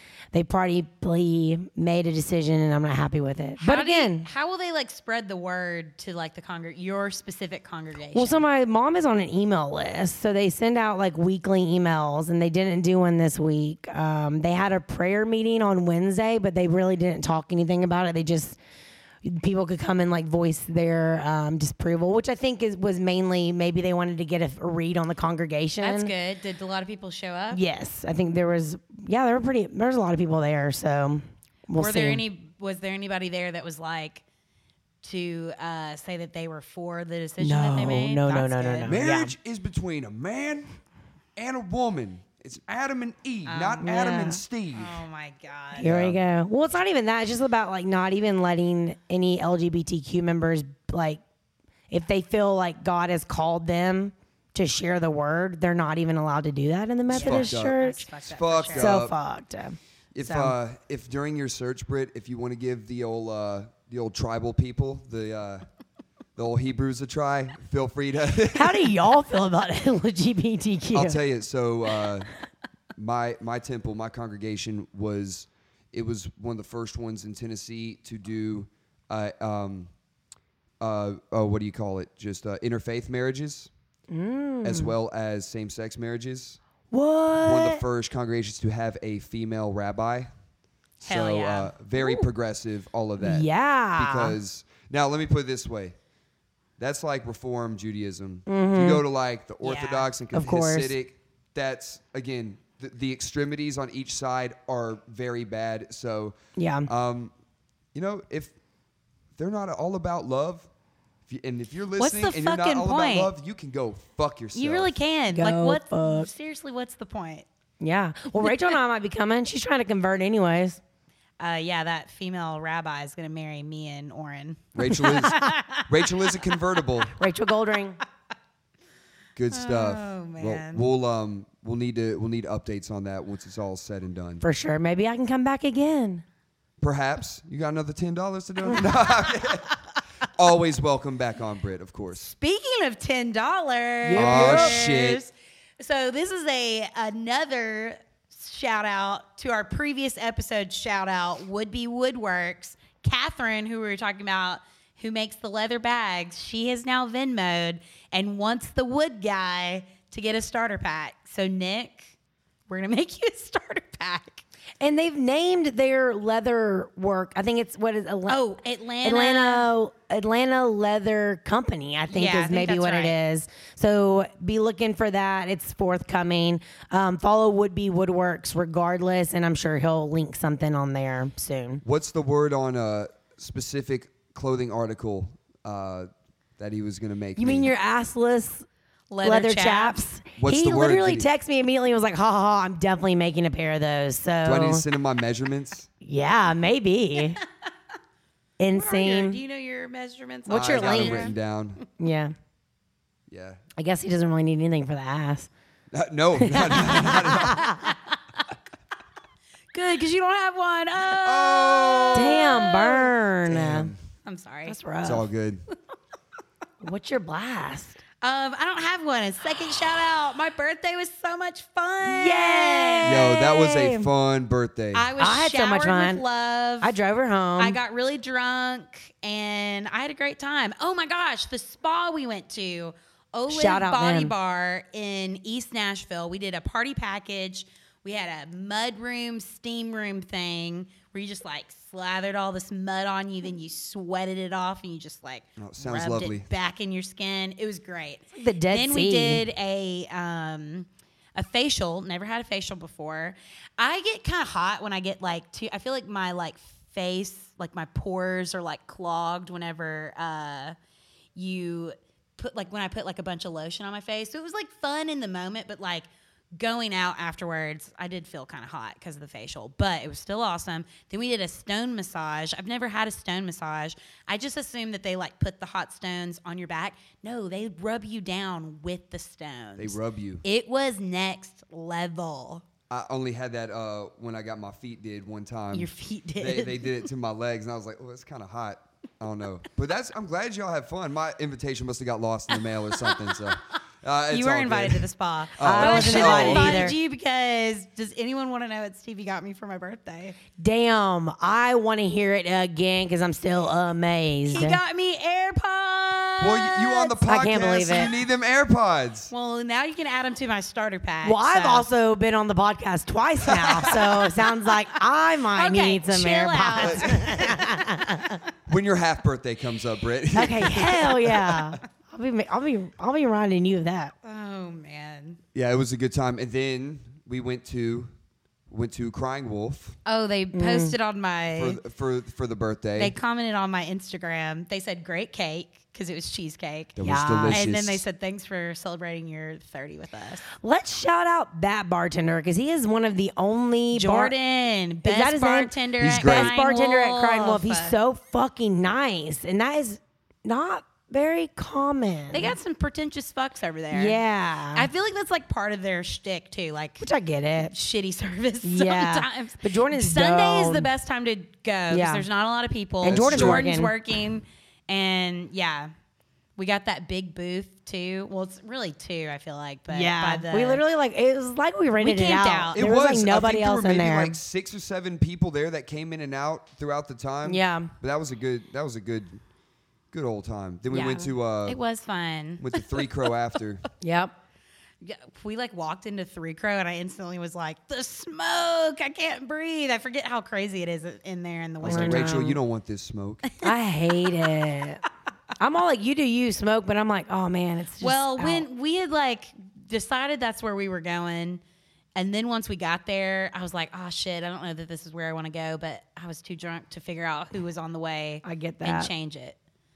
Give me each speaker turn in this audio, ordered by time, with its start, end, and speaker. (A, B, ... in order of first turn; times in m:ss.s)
0:00.3-0:04.3 A
0:03.6-0:08.4 B
0:08.1-0:18.6 A
0:19.2-0:26.1 A
0:25.8-0:27.6 B
0:27.5-0:32.2 A
0:31.8-0:34.2 B
0:35.0-0:38.9 B
0:37.4-0:39.3 A
0:38.8-0:40.7 C
0:41.4-0:45.0 C
0:43.5-0:43.9 B
0:43.8-0:44.4 A
0:44.7-0:45.9 B
0:45.8-0:51.2 A
0:45.8-0:46.2 C
0:51.9-0:58.0 A
0:57.1-0:59.1 C
0:57.1-0:59.0 B
0:58.8-1:00.5 A
1:00.1-1:05.6 C
1:06.4-1:09.0 C
1:08.5-1:11.2 A
1:10.9-1:12.3 C
1:13.0-1:19.9 C
1:20.8-1:23.7 C
1:24.1-1:24.9 A
1:24.6-1:26.6 C
1:26.9-1:27.8 A
1:27.4-1:30.3 C
1:31.0-1:35.9 C
1:31.0-1:31.7 B
1:32.0-1:32.3 A
1:33.2-1:34.4 A
1:36.8-1:47.3 C
1:38.5-1:39.0 A
1:39.6-1:40.1 B
1:40.3-1:40.9 A
1:46.6-1:46.9 A
1:47.9-1:48.6 C
1:49.4-1:50.7 C
1:51.3-1:55.0 C
1:52.0-1:53.3 B
1:54.6-1:57.4 B
1:55.3-1:56.3 A
1:57.8-2:00.8 A
2:01.4-2:06.6 B
2:04.8-2:07.2 C
2:05.1-2:05.4 A
2:07.2-2:08.0 A
2:09.4-2:14.4 C
2:09.5-2:10.8 B
2:14.4-2:16.2 A
2:16.8-2:19.8 C
2:20.3-2:22.3 C
2:22.3-2:42.1 B
2:24.0-2:24.8 A
2:24.2-2:25.2 C
2:42.7-2:44.4 B
2:44.8-3:01.8 A
2:48.3-2:49.7 B
2:52.1-2:53.2 B
3:01.8-3:07.7 C
3:07.4-3:08.7 A
3:09.1-3:10.0 B
3:09.2-3:14.8 A
3:10.4-3:11.3 C
3:14.4-3:15.9 C
3:16.0-3:17.4 A
3:18.6-3:19.4 A
3:18.7-3:21.3 B
3:20.5-3:21.3 A
3:20.5-3:21.8 C
3:22.0-3:22.3 A
3:23.3-3:23.6 C
3:23.8-3:25.5 A
3:25.9-3:27.7 C
3:26.4-3:27.9 A
3:29.7-3:33.1 B
3:31.1-3:32.6 C
3:32.1-3:33.9 A
3:33.4-3:34.0 C
3:34.2-3:34.8 B
3:34.7-3:35.3 A
3:35.0-3:35.6 C
3:36.8-3:38.0 A
3:38.2-3:43.3 B
3:42.0-3:44.1 A
3:43.0-3:45.1 C
3:44.9-3:46.9 B
3:45.2-3:46.2 A
3:46.8-3:47.8 A
3:47.6-4:20.8 B
3:53.5-3:54.3 A
4:05.6-4:06.4 C
4:08.3-4:09.4 A
4:21.3-4:42.6 B
4:39.8-4:40.4 C
4:42.9-4:55.1 C
4:45.7-4:47.1 B
4:53.0-4:53.4 B
4:54.3-5:00.4 B
4:55.6-4:56.9 C
4:55.6-4:56.9 A
5:00.6-5:04.8 A
5:04.4-5:07.2 B
5:06.4-5:09.3 C
5:07.2-5:08.1 A
5:09.3-5:11.9 B
5:11.2-5:18.4 A
5:13.6-5:13.9 C
5:13.6-5:14.8 B
5:15.6-5:18.3 B
5:16.8-5:17.3 C
5:18.7-5:21.8 C
5:20.3-5:24.1 A
5:24.2-5:25.4 B
5:25.5-5:28.1 C
5:28.7-5:30.0 C
5:30.1-5:31.8 B
5:30.5-5:30.9 A
5:31.6-5:33.1 C
5:33.0-5:40.5 B
5:37.0-5:38.0 C
5:37.0-5:37.7 A
5:40.6-5:44.3 A
5:43.9-5:47.9 B
5:45.0-5:52.6 A
5:46.0-5:46.5 C
5:52.3-5:54.2 B
5:53.9-5:54.9 A
5:54.7-5:57.0 B
5:57.0-5:57.7 A
5:57.6-6:05.9 B
5:58.6-6:00.9 A
6:01.9-6:02.3 A
6:03.0-6:03.9 A
6:03.1-6:03.6 C
6:06.6-6:10.8 B
6:09.9-6:14.4 A
6:12.0-6:12.8 B
6:12.8-6:19.4 C
6:17.4-6:17.9 A
6:20.1-6:21.8 C
6:20.9-6:23.1 B
6:22.6-6:23.8 C
6:24.0-6:24.4 A
6:25.0-6:32.4 B
6:31.8-6:33.4 C
6:31.8-6:32.6 A
6:33.6-6:35.0 A
6:35.6-6:38.7 A
6:38.0-6:41.6 B
6:42.2-6:49.6 B
6:48.4-6:49.1 A